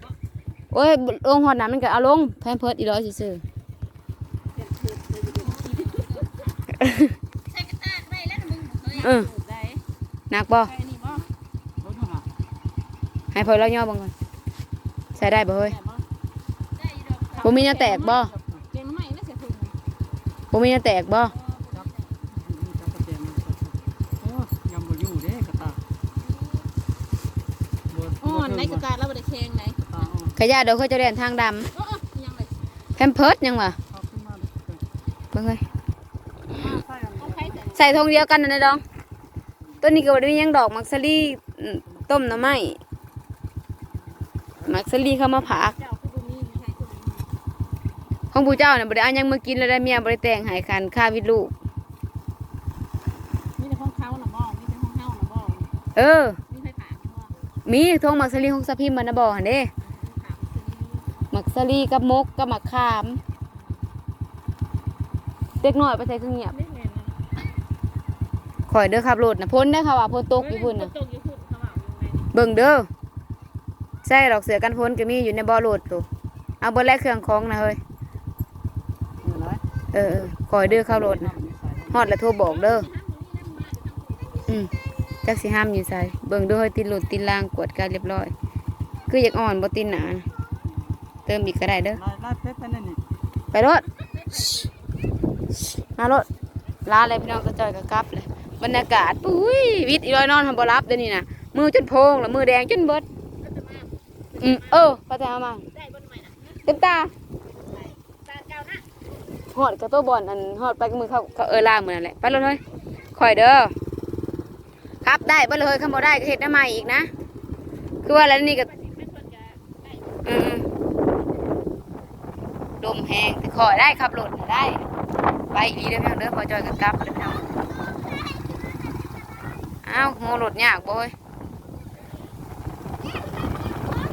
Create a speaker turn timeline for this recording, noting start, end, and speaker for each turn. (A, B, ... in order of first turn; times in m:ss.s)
0:00.7-0:03.4 A
0:04.5-0:06.5 B
0:06.7-0:07.2 A
0:07.5-0:09.8 B
0:09.0-0:09.3 A
0:10.3-0:10.7 A
0:10.6-0:11.3 B
0:11.8-0:12.3 C
0:13.3-0:14.1 A
0:15.2-0:15.8 A
0:15.6-0:16.0 B
0:16.8-0:19.8 B
0:17.4-0:18.3 A
0:20.5-0:21.3 A
0:21.4-0:22.2 B
0:21.8-0:25.8 C
0:27.9-0:28.9 C
0:28.2-0:29.8 B
0:29.9-0:30.3 C
0:30.4-0:31.7 A
0:31.7-0:32.6 B
0:33.0-0:33.8 A
0:33.9-0:34.8 C
0:35.3-0:35.6 A
0:36.5-0:37.6 C
0:37.2-0:37.8 B
0:37.7-0:38.8 A
0:39.8-0:42.8 A
0:44.6-0:45.8 A
0:45.7-0:47.3 B
0:48.3-0:51.5 A
0:53.6-0:55.7 B
0:56.0-0:56.4 A
0:56.5-0:57.3 B
0:57.7-0:59.7 A
0:59.8-1:01.2 B
1:01.3-1:03.2 A
1:05.6-1:06.6 A
1:06.5-1:07.2 B
1:08.7-1:10.9 A
1:10.4-1:12.3 B
1:12.3-1:12.9 A
1:14.0-1:16.1 A
1:16.6-1:17.8 A
1:19.2-1:19.6 C
1:19.9-1:21.3 A
1:20.6-1:22.1 C
1:21.9-1:22.9 A
1:22.5-1:24.5 B
1:25.2-1:28.3 A
1:29.1-1:30.3 A
1:31.3-1:32.0 A
1:32.0-1:33.0 C
1:33.5-1:33.8 A
1:34.4-1:34.6 B
1:35.8-1:36.3 A
1:36.9-1:43.0 A
1:43.4-1:44.4 B
1:44.4-1:45.6 A
1:45.8-1:46.6 B
1:46.6-1:47.1 A
1:47.7-1:48.8 B
1:49.5-1:52.6 A
1:53.1-1:53.7 A
1:55.0-1:57.1 A
1:58.0-1:58.7 A
1:58.7-1:59.9 B
2:00.2-2:00.7 A
2:02.8-2:04.8 A
2:05.5-2:07.5 A
2:09.8-2:11.1 A